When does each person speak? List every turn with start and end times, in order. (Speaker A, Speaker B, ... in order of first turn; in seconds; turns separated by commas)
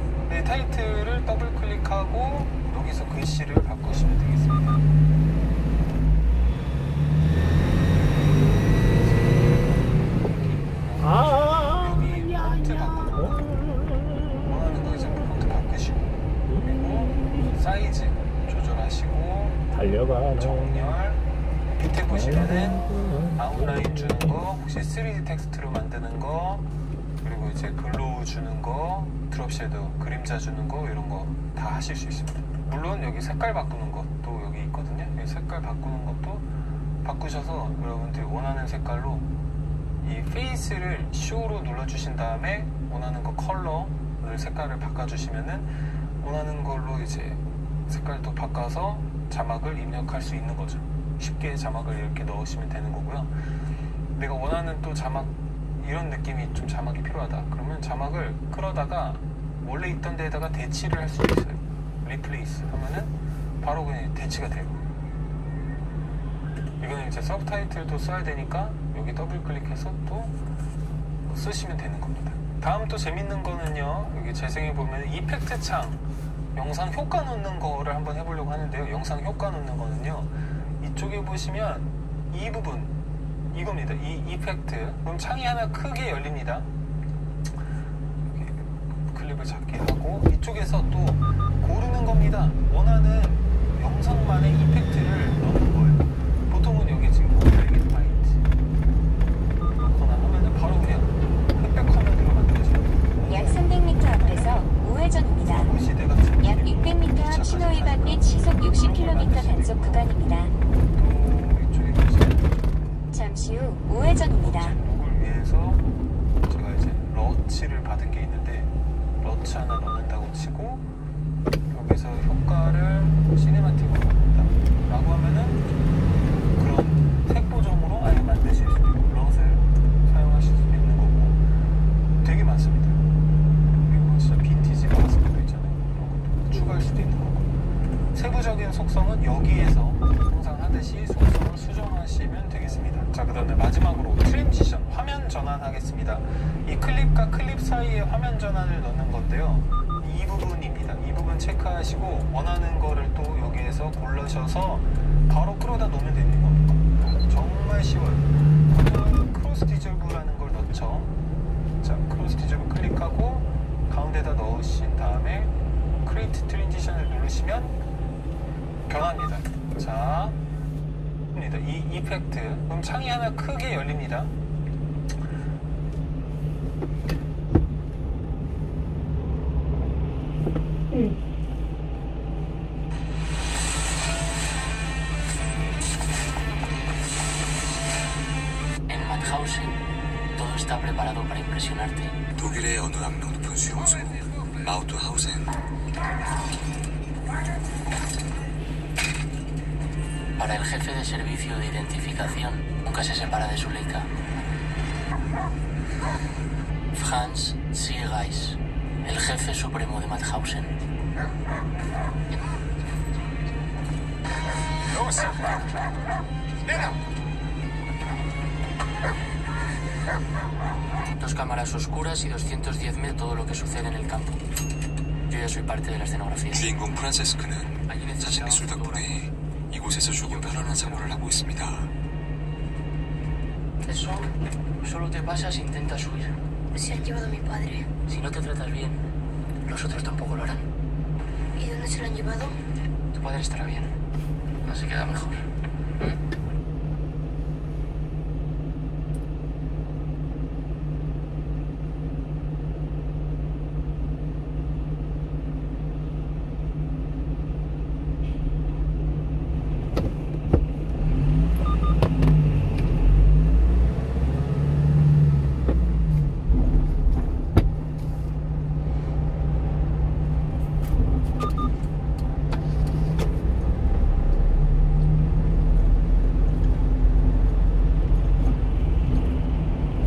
Speaker A: 0.3-4.8, Speaker A: 8.5-13.5, Speaker B: 11.0-14.4, Speaker A: 14.4-19.6, Speaker B: 19.7-20.9, Speaker A: 20.3-21.2, Speaker A: 21.8-26.7, Speaker B: 22.1-23.8, Speaker A: 27.2-36.5, Speaker A: 37.0-39.3, Speaker A: 40.0-53.4, Speaker A: 54.1-64.8, Speaker A: 66.8-70.3, Speaker A: 71.2-76.0, Speaker A: 76.5-82.9, Speaker A: 83.5-86.7, Speaker A: 88.2-98.4, Speaker A: 99.8-104.6, Speaker C: 103.3-105.7, Speaker A: 105.5-110.1, Speaker C: 106.5-110.5, Speaker A: 110.9-112.5, Speaker C: 113.1-114.7, Speaker A: 114.4-115.8, Speaker A: 116.5-118.7, Speaker A: 119.2-120.9, Speaker A: 121.7-125.6, Speaker A: 126.6-131.4, Speaker A: 132.2-133.0, Speaker A: 133.9-137.6, Speaker A: 138.1-161.1, Speaker A: 161.8-165.5, Speaker A: 166.0-167.8, Speaker A: 168.9-170.4, Speaker A: 171.3-174.3, Speaker D: 188.9-189.8, Speaker D: 190.4-192.2, Speaker E: 192.4-195.5, Speaker D: 200.4-204.1, Speaker D: 206.9-210.7, Speaker D: 221.2-224.4, Speaker D: 225.3-226.7, Speaker E: 226.5-231.9, Speaker D: 227.9-229.3, Speaker D: 230.2-231.2, Speaker D: 233.8-236.4, Speaker F: 236.8-237.9, Speaker D: 238.1-239.0, Speaker D: 239.6-240.7, Speaker F: 241.6-242.5, Speaker D: 243.1-243.9, Speaker D: 244.6-245.4